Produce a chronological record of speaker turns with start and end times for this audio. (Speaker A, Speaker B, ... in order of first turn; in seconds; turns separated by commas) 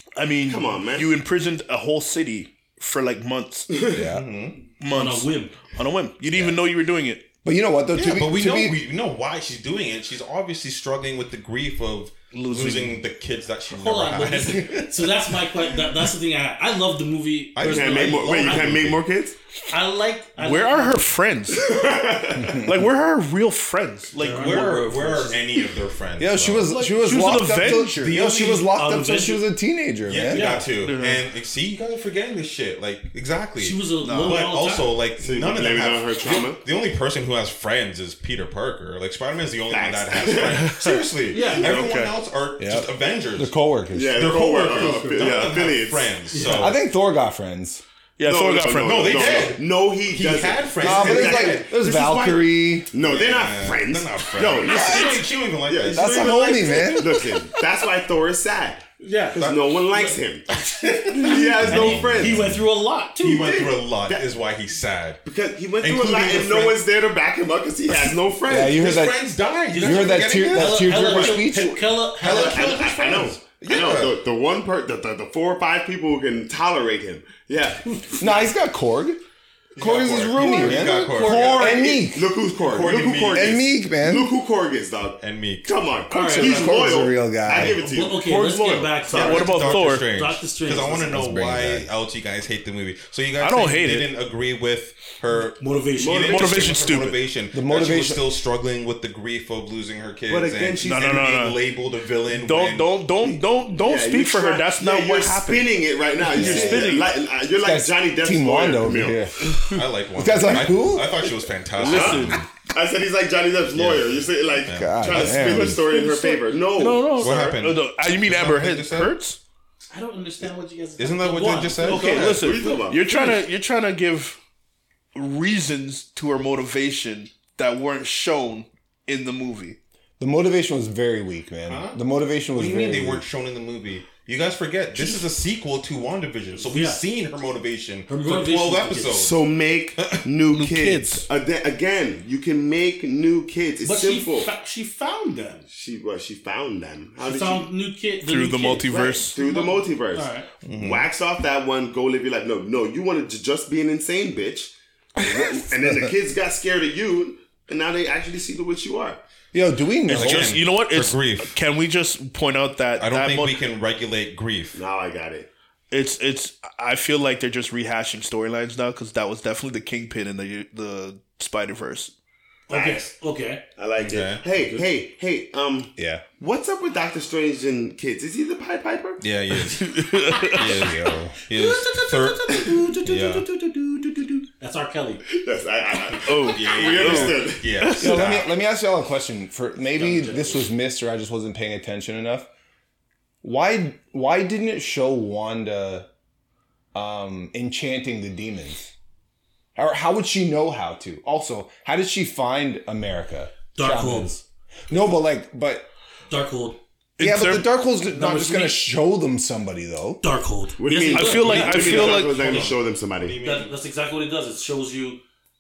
Speaker A: 0.2-3.8, Speaker B: 0.4-1.1, Speaker B: 3.7-4.0, Speaker C: 3.9-4.3, Speaker D: 4.0-4.6, Speaker A: 4.8-7.3, Speaker E: 4.9-5.6, Speaker C: 6.3-6.6, Speaker C: 7.4-8.8, Speaker D: 7.9-15.1, Speaker A: 12.3-13.0, Speaker E: 13.7-18.8, Speaker D: 17.6-19.0, Speaker B: 17.6-19.4, Speaker E: 19.7-21.0, Speaker A: 20.4-21.6, Speaker B: 21.5-22.7, Speaker A: 22.5-24.9, Speaker E: 24.2-25.4, Speaker D: 24.2-26.7, Speaker C: 26.2-30.5, Speaker A: 26.7-28.2, Speaker D: 27.8-28.7, Speaker E: 28.6-29.5, Speaker D: 30.1-43.5, Speaker E: 30.3-30.7, Speaker A: 30.8-31.2, Speaker E: 33.6-35.0, Speaker A: 34.0-34.5, Speaker B: 35.2-36.6, Speaker B: 39.7-40.7, Speaker A: 40.5-42.1, Speaker E: 41.3-41.8, Speaker C: 42.6-44.3, Speaker B: 43.9-46.2, Speaker D: 44.1-46.8, Speaker E: 44.7-45.5, Speaker E: 46.3-46.8, Speaker C: 46.5-47.8, Speaker A: 48.2-49.5, Speaker B: 48.2-60.5, Speaker D: 48.8-52.2, Speaker C: 50.8-52.9, Speaker D: 53.0-56.3, Speaker E: 54.7-55.1, Speaker C: 55.9-57.2, Speaker E: 59.0-63.6, Speaker D: 59.4-59.7, Speaker D: 60.8-62.6, Speaker B: 61.1-62.5, Speaker D: 63.2-65.2, Speaker B: 63.4-64.3, Speaker B: 65.2-68.8, Speaker D: 65.8-66.8, Speaker C: 68.5-69.2, Speaker D: 68.7-71.5, Speaker E: 69.7-73.4, Speaker C: 69.8-71.8, Speaker B: 72.2-78.4, Speaker D: 72.2-74.2, Speaker C: 78.2-79.2, Speaker D: 79.8-81.8, Speaker C: 79.8-82.3, Speaker E: 80.4-81.8, Speaker B: 81.2-88.4, Speaker D: 82.6-83.6, Speaker C: 83.3-84.3, Speaker D: 85.2-85.7, Speaker E: 86.1-86.8, Speaker C: 86.1-87.8, Speaker E: 87.8-91.2, Speaker A: 88.2-90.1, Speaker B: 89.1-89.5, Speaker D: 89.1-102.9, Speaker C: 91.1-91.9, Speaker A: 93.4-94.1, Speaker E: 95.6-96.5, Speaker B: 96.0-96.8, Speaker A: 96.2-97.2, Speaker C: 97.5-98.3, Speaker B: 100.3-101.1, Speaker A: 100.8-101.6, Speaker A: 102.3-107.1, Speaker B: 103.2-109.2, Speaker C: 106.4-106.9, Speaker C: 107.6-111.3, Speaker D: 109.7-112.5, Speaker A: 111.8-112.5, Speaker B: 111.8-117.6, Speaker D: 113.7-115.5, Speaker C: 114.7-115.9, Speaker A: 115.7-119.4, Speaker D: 117.2-119.1, Speaker E: 119.9-122.2, Speaker D: 121.0-122.6, Speaker A: 121.9-124.4, Speaker B: 121.9-123.3, Speaker E: 123.1-123.4, Speaker A: 125.1-129.8, Speaker C: 130.2-133.3, Speaker D: 131.7-132.0, Speaker D: 132.5-139.4, Speaker E: 135.0-135.2, Speaker E: 136.6-137.0, Speaker E: 138.1-139.3, Speaker B: 139.1-144.5, Speaker D: 140.0-140.3, Speaker A: 140.5-141.3, Speaker E: 143.8-145.7, Speaker B: 145.7-147.7, Speaker E: 147.2-150.5, Speaker A: 148.3-149.3, Speaker B: 148.9-159.2, Speaker D: 150.7-151.1, Speaker C: 155.2-156.1, Speaker C: 159.5-160.6, Speaker D: 160.1-161.6, Speaker A: 160.1-163.6, Speaker D: 163.0-164.8, Speaker B: 164.7-165.5, Speaker A: 165.9-172.1, Speaker E: 172.7-173.6, Speaker B: 172.7-173.1, Speaker B: 173.8-179.2, Speaker D: 174.0-174.4, Speaker C: 176.0-176.2, Speaker D: 179.2-180.0, Speaker A: 179.7-180.7, Speaker D: 180.6-183.5, Speaker C: 180.7-181.3, Speaker E: 181.5-185.2, Speaker B: 185.3-187.7, Speaker A: 186.3-188.2, Speaker D: 186.5-188.5, Speaker C: 188.0-192.5, Speaker E: 189.9-190.7, Speaker C: 193.4-196.1, Speaker C: 196.9-198.9, Speaker C: 199.8-205.9, Speaker E: 203.8-204.3, Speaker E: 206.3-206.8, Speaker A: 207.2-207.7, Speaker C: 207.2-210.2, Speaker E: 208.1-208.9, Speaker E: 210.2-212.7, Speaker B: 210.8-213.4, Speaker A: 211.1-212.7, Speaker D: 211.4-213.7, Speaker E: 213.4-215.2